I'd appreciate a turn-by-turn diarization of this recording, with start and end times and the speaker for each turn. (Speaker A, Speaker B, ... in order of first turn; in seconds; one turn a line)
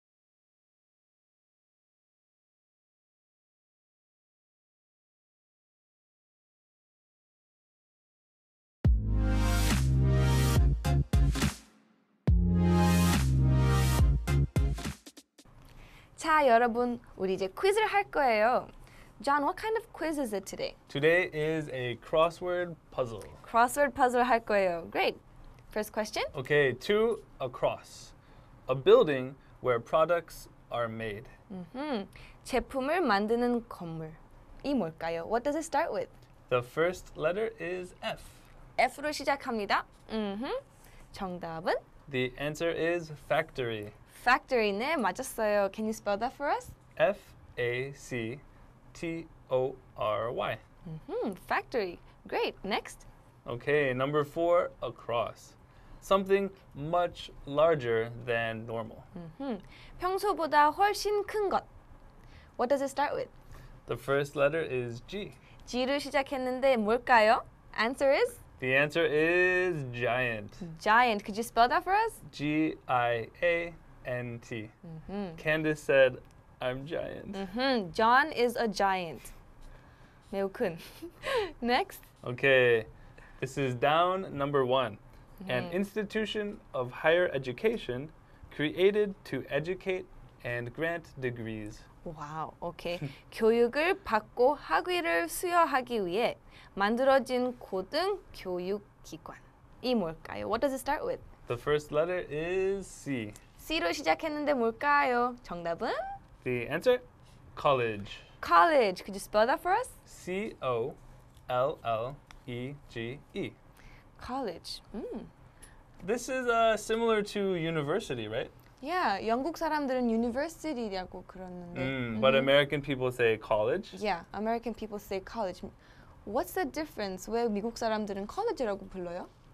Speaker A: 16.2-20.8
Speaker B: 20.9-23.4
Speaker A: 23.4-25.2
Speaker A: 25.7-26.3
Speaker B: 26.3-28.1
Speaker B: 28.7-31.3
Speaker A: 31.5-36.1
Speaker B: 36.5-38.5
Speaker A: 38.8-40.6
Speaker A: 41.1-41.8
Speaker B: 42.1-43.9
Speaker A: 44.1-46.7
Speaker B: 47.0-48.4
Speaker B: 48.9-50.6
Speaker A: 50.9-53.0
Speaker B: 53.4-59.1
Speaker A: 59.1-61.6
Speaker A: 62.6-63.3
Speaker B: 63.9-65.4
Speaker A: 65.7-68.4
Speaker B: 68.6-70.6
Speaker A: 70.6-72.2
Speaker B: 72.3-74.7
Speaker A: 74.9-75.4
Speaker B: 75.4-77.4
Speaker A: 77.3-79.3
Speaker A: 80.3-82.0
Speaker B: 82.2-91.8
Speaker A: 85.4-85.8
Speaker A: 92.0-101.2
Speaker B: 101.5-103.4
Speaker A: 103.6-106.2
Speaker B: 106.4-107.0
Speaker B: 107.5-108.2
Speaker A: 108.4-110.0
Speaker B: 110.0-111.0
Speaker B: 111.5-113.5
Speaker A: 114.2-115.3
Speaker B: 116.0-118.5
Speaker A: 118.8-122.5
Speaker B: 121.7-124.0
Speaker A: 123.9-125.7
Speaker A: 126.2-129.3